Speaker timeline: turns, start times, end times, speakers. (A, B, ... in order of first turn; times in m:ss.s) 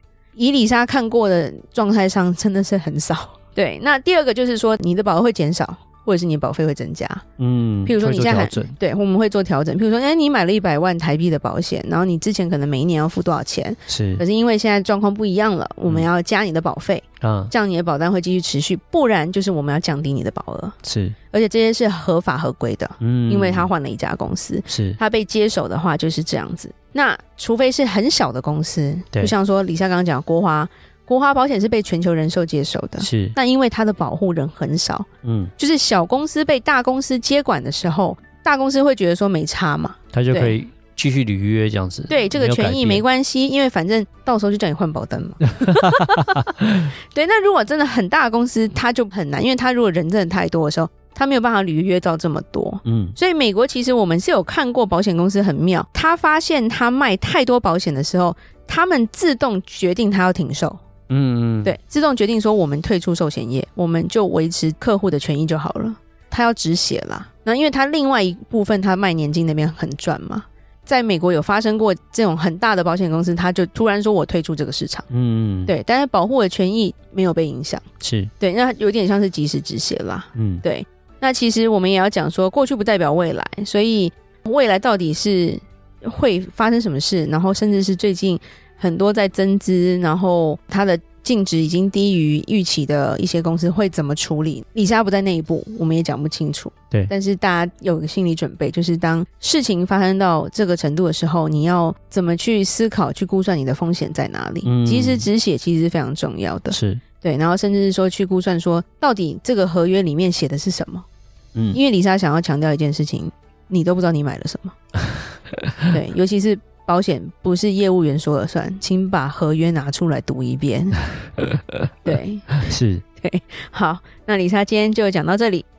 0:00.4-0:07.2 A
0:07.4-0:08.7 B
0:07.9-0:20.8 A
0:13.9-0:14.2 B
0:17.2-0:17.5 B
0:20.8-0:21.2 B
0:21.3-0:35.1 A
0:23.0-0:23.7 B
0:24.7-0:25.0 B
0:33.0-0:33.4 B
0:35.2-0:35.5 B
0:35.6-0:40.6 A
0:40.1-0:43.0 B
0:42.1-0:46.5 A
0:45.7-0:46.9 B
0:47.1-1:00.8 A
0:52.8-0:53.2 B
1:01.1-1:01.7 B
1:01.6-1:15.1 A
1:15.1-1:15.7 B
1:15.7-1:17.9 A
1:18.0-1:18.3 B
1:18.4-1:51.0 A
1:20.4-1:20.6 B
1:44.6-1:45.3 B
1:46.7-1:47.0 B
1:51.7-1:54.8 A
1:55.9-2:01.1 A
2:01.4-2:03.0 B
2:02.0-2:02.6 A
2:03.2-2:05.6 A